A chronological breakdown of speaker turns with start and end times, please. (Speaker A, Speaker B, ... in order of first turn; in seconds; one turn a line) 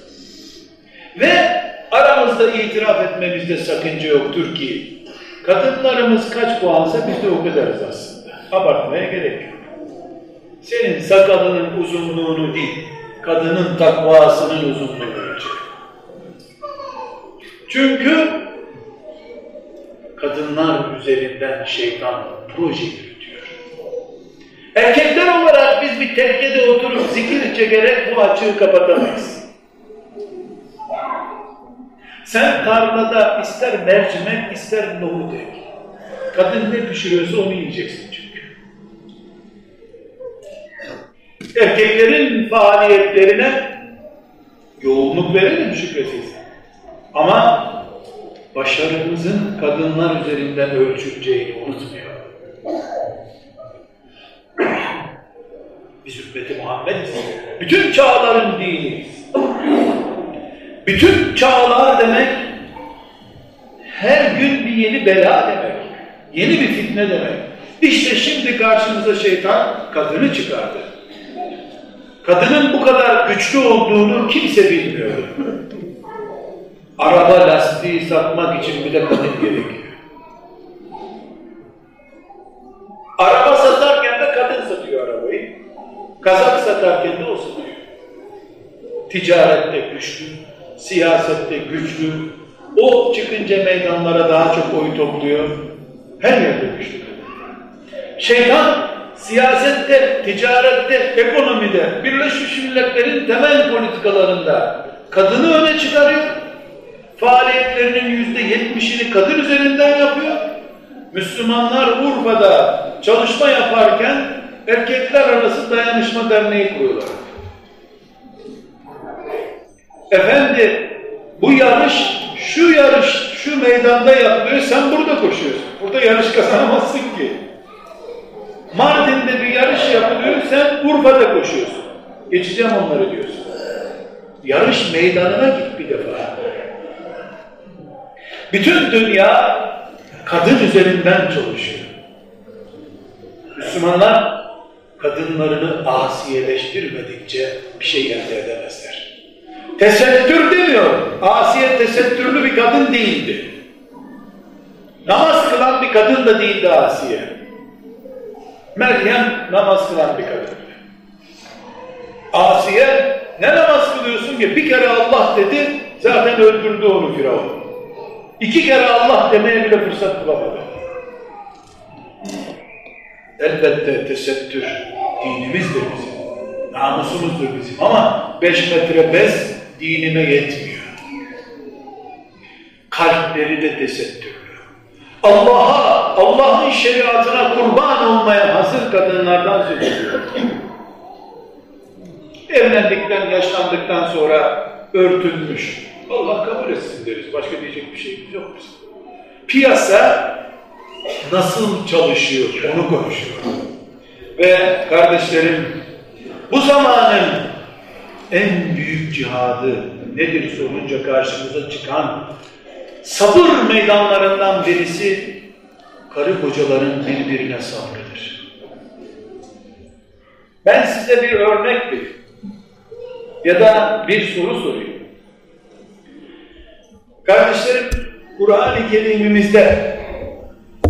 Speaker A: 1.1-9.7
Speaker A: 10.6-15.6
Speaker A: 17.7-18.4
Speaker A: 20.1-23.6
Speaker A: 24.7-29.4
Speaker A: 32.2-35.6
Speaker A: 36.3-38.5
Speaker A: 41.5-43.7
Speaker A: 44.8-46.4
Speaker A: 47.1-47.8
Speaker A: 48.5-52.3
Speaker A: 56.0-59.2
Speaker A: 60.8-62.5
Speaker A: 63.9-70.9
Speaker A: 72.2-75.4
Speaker A: 77.0-80.0
Speaker A: 83.2-85.5
Speaker A: 86.2-87.8
Speaker A: 89.1-97.3
Speaker A: 98.2-106.4
Speaker A: 107.2-110.5
Speaker A: 111.1-117.3
Speaker A: 120.1-127.4
Speaker A: 128.7-133.5
Speaker A: 134.4-136.3
Speaker A: 138.5-141.9
Speaker A: 143.6-144.4
Speaker A: 145.0-149.1
Speaker A: 149.8-153.5
Speaker A: 155.0-157.3
Speaker A: 158.7-160.8
Speaker A: 162.3-167.7
Speaker A: 168.4-170.8
Speaker A: 173.4-180.9
Speaker A: 182.9-184.6
Speaker A: 185.2-190.5
Speaker A: 192.5-198.7
Speaker A: 199.5-200.4
Speaker A: 201.2-203.6
Speaker A: 204.4-205.8
Speaker A: 206.5-207.5
Speaker A: 208.3-212.3
Speaker A: 213.0-215.4
Speaker A: 216.1-218.4
Speaker A: 220.6-222.1
Speaker A: 223.4-225.0
Speaker A: 227.2-230.0